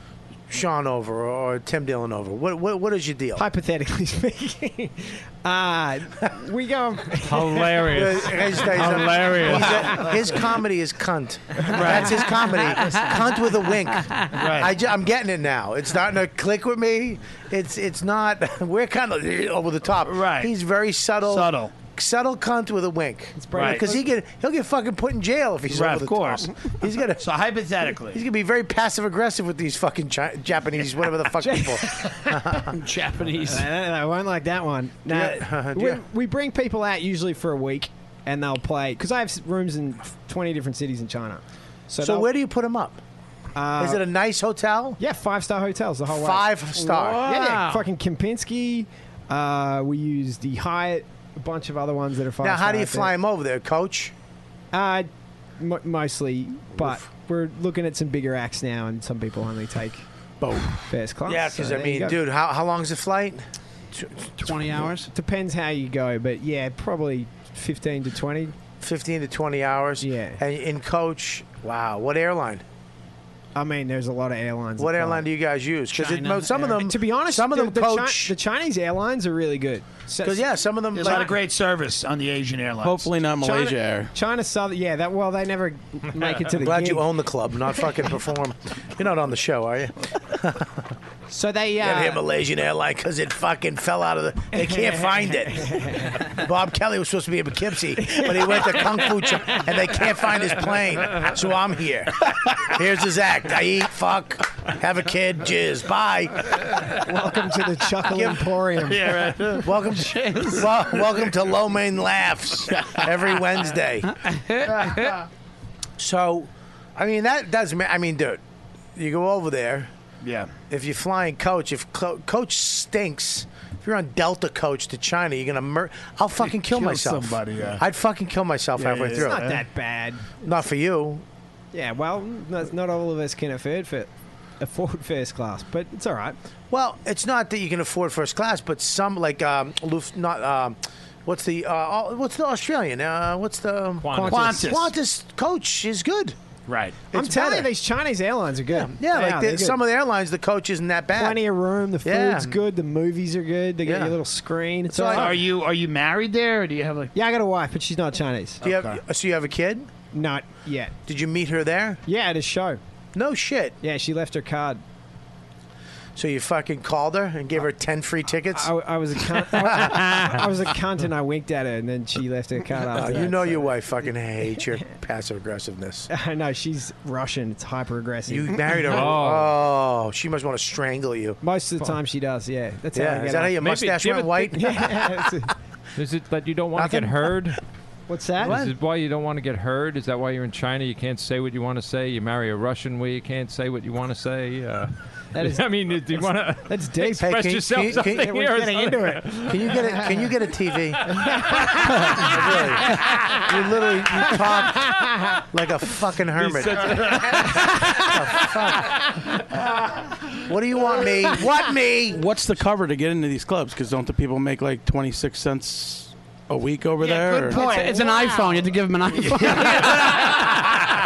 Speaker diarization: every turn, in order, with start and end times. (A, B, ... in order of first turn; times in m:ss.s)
0:00.5-0:03.4 A
0:03.4-0:10.0 B
0:07.2-0:10.0 C
0:07.9-0:27.3 A
0:11.6-0:12.1 B
0:11.7-0:12.2 D
0:14.3-0:14.7 D
0:20.0-0:20.5 D
0:21.2-0:21.7 D
0:23.4-0:24.1 B
0:23.5-0:23.8 D
0:25.7-0:26.5 D
0:27.2-0:28.2 D
0:28.1-0:32.7 A
0:31.4-0:32.6 B
0:32.7-0:33.7 E
0:33.4-0:42.3 B
0:35.1-0:36.0 A
0:42.0-0:43.0 A
0:43.6-0:44.0 B
0:43.8-0:45.0 A
0:45.0-0:46.5 B
0:46.1-0:47.3 A
0:46.8-0:47.9 E
0:47.2-0:53.1 B
0:52.4-0:54.1 A
0:54.7-0:55.1 B
0:55.6-1:00.1 B
1:00.4-1:00.8 F
1:00.9-1:02.2 B
1:01.3-1:04.9 A
1:04.4-1:05.1 E
1:05.1-1:08.5 B
1:08.8-1:12.6 A
1:10.0-1:10.4 B
1:13.6-1:15.2 B
1:14.8-1:18.3 A
1:15.9-1:16.7 E
1:16.8-1:20.4 B
1:20.2-1:21.3 A
1:21.0-1:23.1 D
1:21.0-1:21.3 B
1:22.8-1:24.1 F
1:23.4-1:27.0 B
1:26.6-1:30.8 A
1:31.3-1:32.2 B
1:31.8-1:46.9 A
1:35.6-1:36.2 B
1:38.0-1:38.9 B
1:47.0-1:49.3 B
1:48.1-1:48.5 A
1:48.8-1:49.7 D
1:49.6-1:54.2 A
1:49.9-1:50.7 E
1:54.3-1:55.1 E
1:54.7-1:55.2 D
1:56.0-1:58.4 A
1:59.0-1:59.9 A
2:00.2-2:00.5 D
2:00.7-2:09.5 A
2:06.4-2:07.8 D
2:08.8-2:09.6 D
2:09.1-2:10.4 B
2:10.4-2:11.2 A
2:11.7-2:16.4 B
2:16.7-2:26.4 A
2:24.0-2:24.5 C
2:24.1-2:24.7 B
2:24.2-2:24.9 D
2:26.7-2:27.0 D
2:27.1-2:27.7 A
2:27.1-2:29.8 B
2:28.7-2:31.4 A
2:31.2-2:35.4 B
2:32.0-2:32.6 A
2:33.8-2:34.2 A
2:34.9-2:35.4 A
2:35.1-2:37.1 D
2:37.1-2:38.6 B
2:38.6-2:39.0 D
2:38.6-2:39.9 A
2:40.1-2:41.0 B
2:41.1-2:42.0 A
2:42.1-2:42.8 B
2:43.1-2:43.8 A
2:43.8-2:44.8 B
2:46.2-2:48.7 A
2:48.6-2:53.7 B
2:49.4-2:50.4 A
2:52.9-2:56.1 A
2:56.1-2:58.5 B
2:58.3-3:01.4 A
2:58.9-2:59.6 C
3:01.4-3:03.6 B
3:03.0-3:05.1 A
3:03.6-3:04.7 C
3:04.5-3:05.5 B
3:06.0-3:07.6 C
3:06.8-3:07.3 A
3:08.1-3:08.6 B
3:08.4-3:19.8 C
3:08.4-3:08.8 A
3:15.3-3:17.3 B
3:17.2-3:18.3 A
3:17.9-3:20.1 B
3:19.5-3:21.2 A
3:21.1-3:23.4 B
3:22.0-3:25.0 A
3:24.9-3:25.3 B
3:25.5-3:29.0 A
3:26.4-3:28.1 C
3:30.4-3:32.2 A
3:32.1-3:37.6 F
3:37.0-3:38.4 D
3:37.5-3:40.4 E
3:38.0-3:38.3 B
3:39.3-3:40.4 D
3:39.5-3:40.4 B